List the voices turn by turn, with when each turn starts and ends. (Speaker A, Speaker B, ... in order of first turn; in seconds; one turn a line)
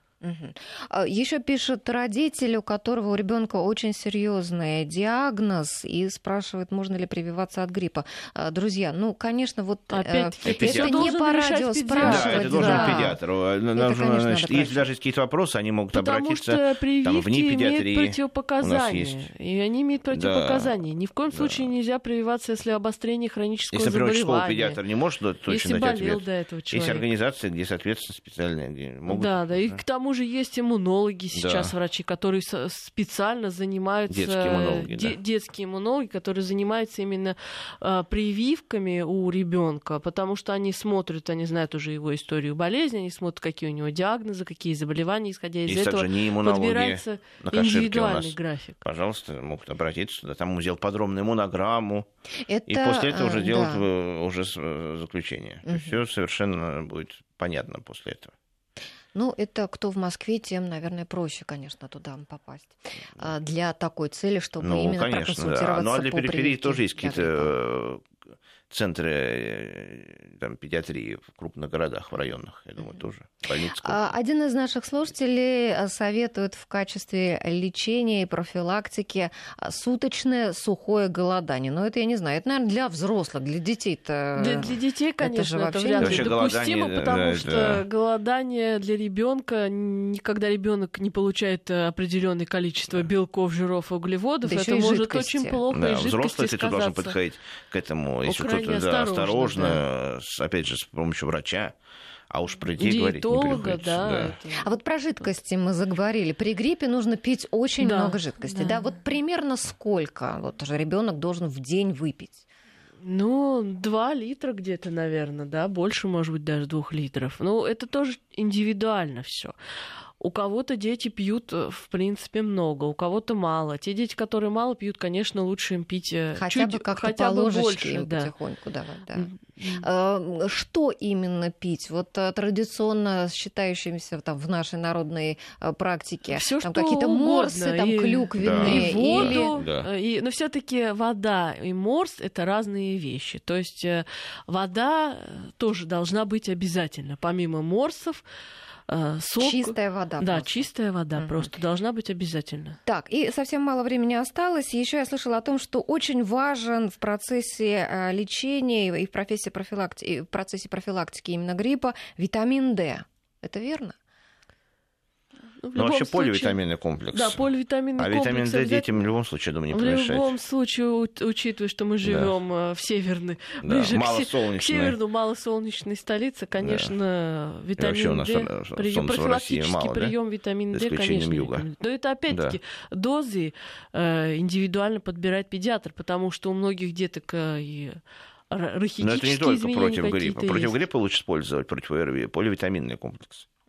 Speaker A: 0.2-13.2
Speaker B: 9.9-13.1
Speaker C: 10.4-11.0
Speaker C: 12.0-19.3
Speaker A: 13.7-14.9
Speaker B: 15.9-24.8
Speaker C: 20.1-20.7
Speaker C: 21.3-21.7
Speaker C: 23.7-29.8
Speaker B: 25.5-27.1
Speaker B: 29.1-48.8
Speaker C: 31.3-31.7
Speaker C: 34.1-35.2
Speaker C: 45.7-52.1
Speaker A: 52.5-53.8
Speaker C: 52.7-58.3
Speaker A: 55.6-56.0
Speaker A: 59.1-67.5
Speaker C: 64.6-68.1
Speaker C: 68.7-74.1
Speaker A: 73.8-86.3
Speaker B: 84.4-97.2
Speaker C: 86.0-87.8
Speaker A: 94.4-95.6
Speaker C: 95.7-101.7
Speaker B: 98.2-99.8
Speaker C: 102.3-104.4
Speaker B: 102.8-104.7
Speaker A: 104.6-112.4
Speaker B: 107.8-108.9
Speaker B: 113.0-119.5
Speaker B: 120.2-128.3
Speaker A: 126.4-139.6
Speaker B: 129.2-129.8
Speaker B: 136.3-148.2
Speaker C: 138.4-139.9
Speaker B: 148.9-152.8
Speaker A: 149.4-151.5
Speaker A: 152.9-163.9
Speaker B: 165.6-166.6
Speaker C: 165.7-170.3
Speaker B: 167.1-168.9
Speaker B: 169.7-188.0
Speaker C: 172.0-172.3
Speaker C: 173.6-175.0
Speaker C: 176.6-176.9
Speaker C: 177.8-180.1
Speaker C: 180.7-181.7
Speaker C: 182.3-182.6
Speaker B: 188.5-190.8
Speaker C: 189.0-193.5